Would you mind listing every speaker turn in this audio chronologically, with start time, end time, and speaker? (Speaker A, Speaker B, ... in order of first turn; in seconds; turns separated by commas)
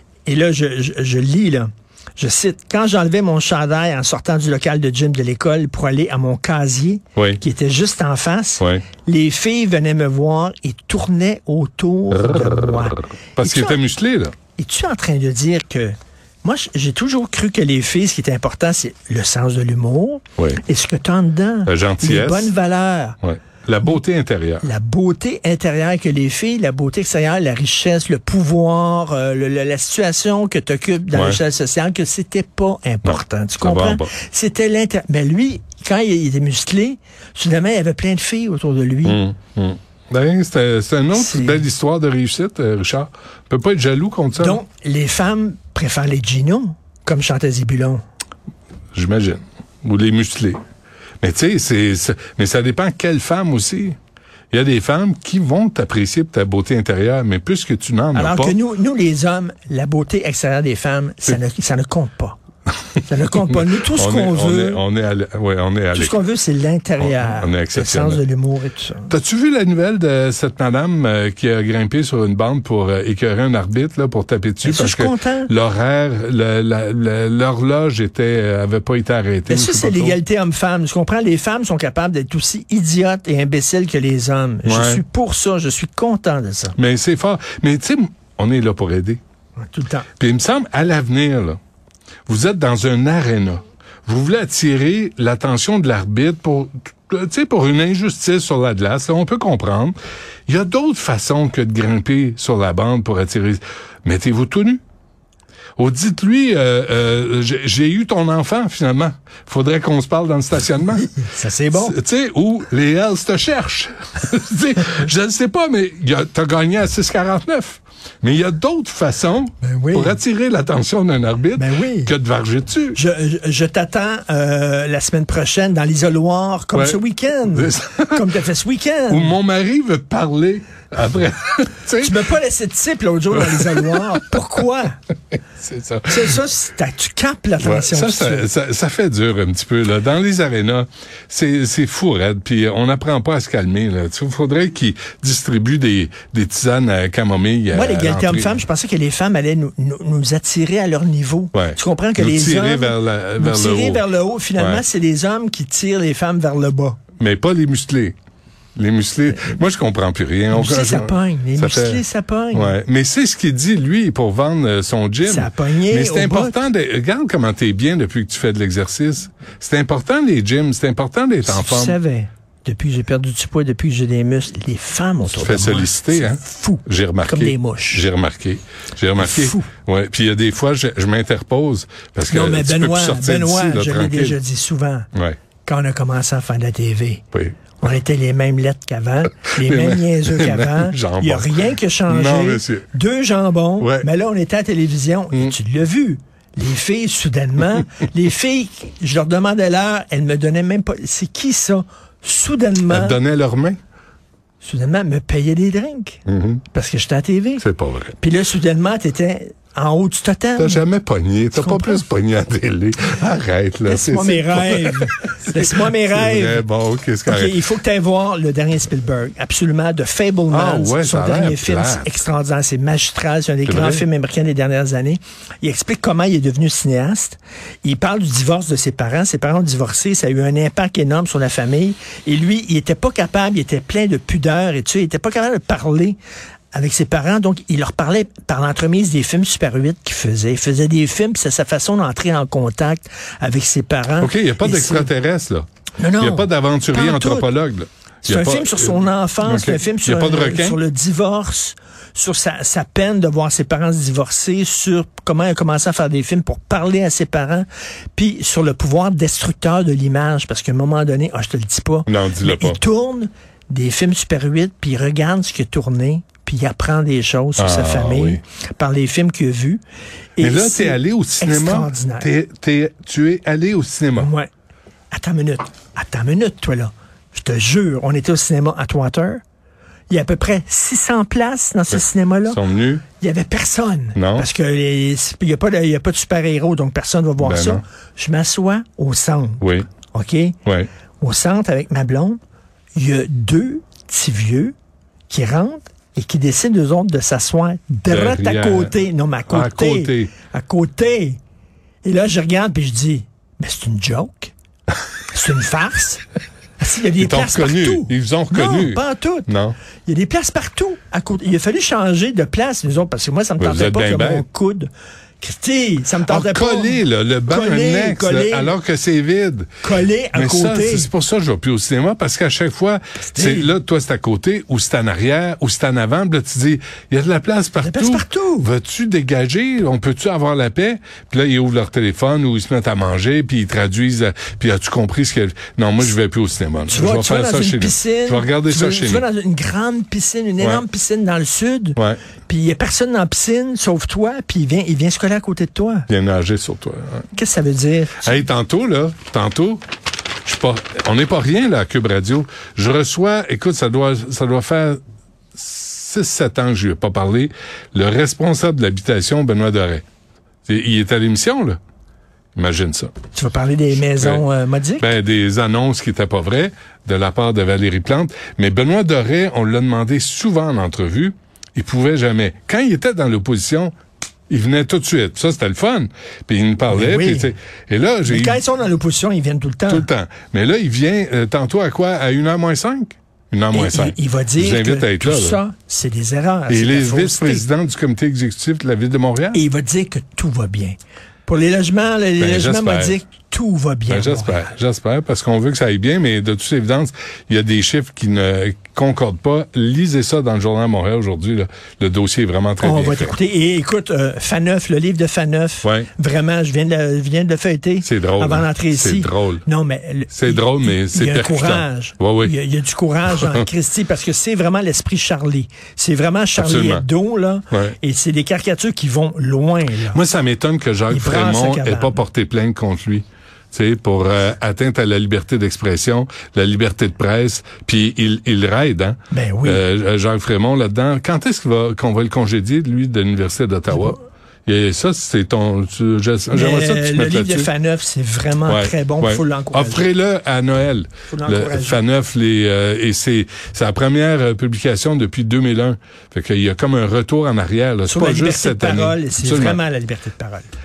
Speaker A: 0.2-13.8, Speaker B: 7.2-7.4, Speaker B: 8.6-8.8, Speaker B: 12.1-14.3, Speaker A: 14.6-23.2, Speaker B: 21.7-22.5, Speaker B: 23.2-24.7, Speaker A: 24.6-39.2, Speaker B: 31.1-31.4, Speaker B: 33.0-34.1, Speaker B: 39.0-44.6, Speaker A: 41.1-41.6, Speaker A: 44.4-48.0, Speaker B: 48.9-50.6, Speaker B: 51.2-54.0, Speaker B: 54.5-58.6, Speaker A: 58.1-62.4, Speaker A: 63.1-64.8, Speaker B: 63.9-66.2, Speaker A: 65.9-69.1, Speaker B: 67.0-68.2, Speaker B: 69.1-80.2, Speaker A: 74.6-75.5, Speaker A: 79.5-86.8, Speaker B: 84.6-85.0, Speaker B: 86.8-89.2, Speaker A: 89.6-90.1, Speaker B: 90.2-91.6, Speaker B: 92.3-100.0, Speaker B: 100.5-104.8, Speaker B: 105.8-111.1, Speaker A: 111.1-112.0, Speaker B: 111.7-123.0, Speaker A: 119.6-120.2, Speaker A: 121.6-122.1, Speaker A: 122.9-129.4, Speaker B: 126.7-127.0, Speaker B: 127.5-128.4, Speaker B: 129.1-132.3, Speaker A: 132.0-134.9, Speaker B: 133.4-134.2, Speaker B: 135.6-136.3, Speaker A: 136.1-138.5, Speaker B: 137.6-148.6, Speaker A: 147.7-157.0, Speaker B: 151.5-154.0, Speaker B: 154.6-154.8, Speaker B: 157.2-158.1, Speaker B: 158.8-172.0, Speaker A: 160.5-162.8, Speaker A: 165.2-166.6, Speaker A: 171.5-178.1, Speaker B: 175.2-184.4, Speaker A: 179.2-179.7, Speaker A: 182.2-185.1, Speaker A: 185.7-187.2, Speaker A: 187.8-203.2, Speaker B: 189.5-192.9, Speaker B: 193.8-194.1, Speaker B: 202.9-203.8, Speaker A: 204.6-207.6, Speaker B: 206.3-206.6, Speaker B: 207.6-208.2, Speaker A: 208.2-210.8, Speaker B: 210.6-217.6, Speaker A: 211.5-212.0, Speaker A: 213.8-216.6, Speaker A: 217.2-236.2, Speaker B: 220.5-222.2, Speaker B: 223.7-224.0, Speaker A: 236.7-245.1, Speaker B: 244.2-245.7, Speaker A: 246.0-247.5, Speaker B: 246.2-250.8, Speaker A: 248.2-269.8, Speaker B: 262.1-262.8, Speaker B: 267.6-268.4, Speaker A: 270.4-272.3, Speaker B: 270.4-274.3, Speaker A: 274.2-274.5, Speaker A: 275.1-279.4, Speaker A: 280.1-282.6, Speaker B: 281.9-283.0, Speaker A: 283.2-290.6, Speaker B: 284.1-284.5, Speaker B: 287.4-287.8, Speaker B: 289.6-289.9, Speaker A: 291.2-292.4, Speaker A: 292.9-294.7, Speaker A: 295.3-301.4, Speaker B: 298.1-298.9, Speaker B: 299.5-300.3, Speaker A: 302.0-304.5, Speaker A: 305.3-306.2, Speaker A: 306.8-309.5, Speaker B: 307.2-309.8, Speaker A: 310.1-318.7, Speaker B: 313.6-314.5, Speaker B: 316.2-319.7, Speaker A: 319.8-321.1, Speaker B: 320.3-339.2, Speaker A: 323.3-323.7, Speaker A: 327.8-328.7, Speaker A: 336.9-346.1, Speaker B: 346.1-347.2, Speaker A: 347.4-348.4, Speaker B: 348.2-349.8, Speaker B: 350.4-355.0, Speaker B: 355.5-360.0, Speaker B: 360.6-361.8, Speaker B: 362.6-363.1, Speaker A: 363.3-365.1, Speaker B: 364.2-364.4, Speaker B: 365.0-373.9, Speaker B: 374.5-378.6, Speaker A: 376.9-377.5, Speaker A: 378.2-380.1, Speaker B: 379.9-385.6, Speaker A: 383.7-387.6, Speaker B: 386.7-389.6, Speaker A: 389.5-394.7, Speaker B: 392.4-393.2, Speaker B: 394.1-403.4, Speaker A: 402.8-420.2, Speaker B: 405.8-406.1, Speaker B: 408.0-409.6, Speaker B: 410.3-412.5, Speaker B: 413.3-413.6, Speaker B: 416.6-417.1, Speaker B: 417.7-418.0, Speaker B: 420.1-437.7, Speaker A: 421.1-422.2, Speaker A: 429.3-429.8, Speaker A: 436.5-440.1, Speaker B: 438.7-449.8, Speaker A: 441.3-442.0, Speaker A: 448.1-450.7